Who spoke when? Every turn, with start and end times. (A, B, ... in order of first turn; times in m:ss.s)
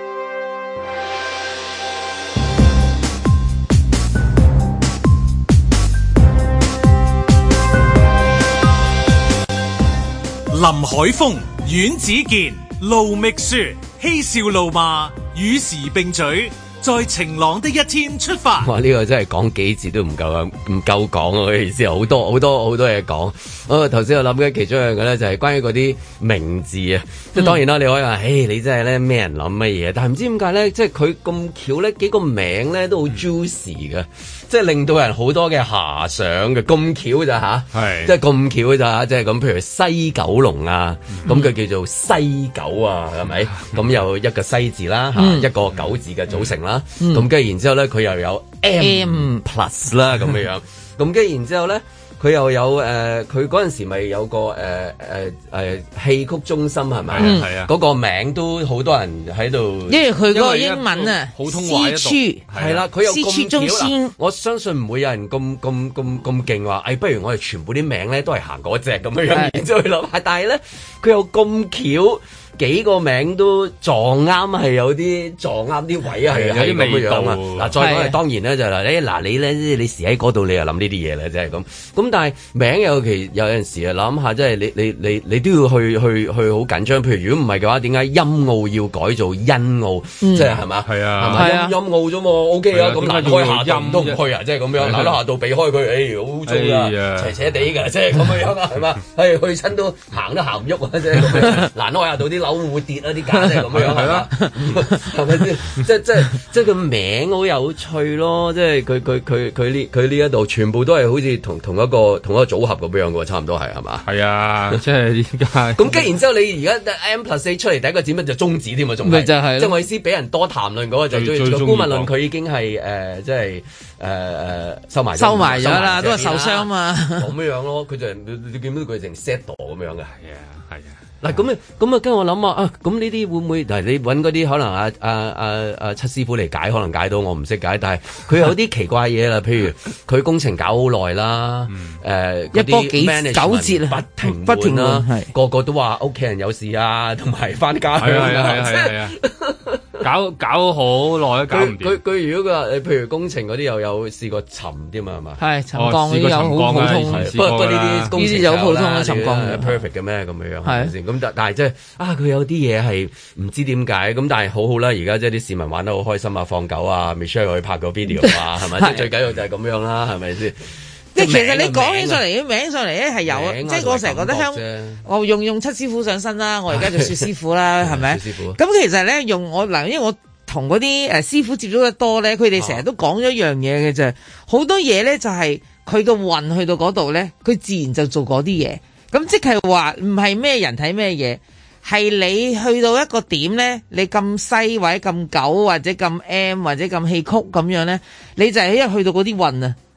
0:10.5-0:18.7 A
0:18.6-1:00.0 B
0:37.7-0:38.1 C
0:41.2-0:41.5 D
0:45.2-0:45.5 D
0:45.7-0:46.5 C
0:47.0-0:47.2 D
0:48.8-0:49.4 D
0:57.1-0:57.7 C
0:57.2-0:57.5 D
0:59.9-1:02.4 D
1:00.3-1:02.8 C
1:02.5-1:54.0 B
1:03.0-1:04.1 D
1:09.3-1:09.6 D
1:16.3-1:17.7 C
1:17.8-1:18.2 D
1:30.2-1:30.6 D
1:30.8-1:31.5 C
1:31.3-1:31.7 D
1:32.7-1:34.2 C
1:34.8-1:35.2 C
1:36.4-1:37.5 C
1:43.6-1:44.3 C
1:54.0-1:56.1 C
1:55.8-2:10.1 B
1:59.0-1:59.8 D
2:01.1-2:02.1 C
2:05.2-2:07.3 D
2:10.2-2:11.3 C
2:11.2-2:29.8 B
2:21.7-2:22.0 C
2:22.5-2:25.3 D
2:28.0-2:29.2 C
2:30.0-2:32.0 C
2:31.5-2:35.4 B
2:35.4-2:37.3 D
2:35.7-2:38.1 C
2:37.0-2:52.2 B
2:38.1-2:39.7 D
2:40.6-2:40.9 D
2:48.1-2:49.1 D
2:51.1-3:19.8 D
2:53.2-2:55.0 B
2:56.7-2:57.3 B
2:57.8-2:58.6 B
3:02.6-3:02.8 B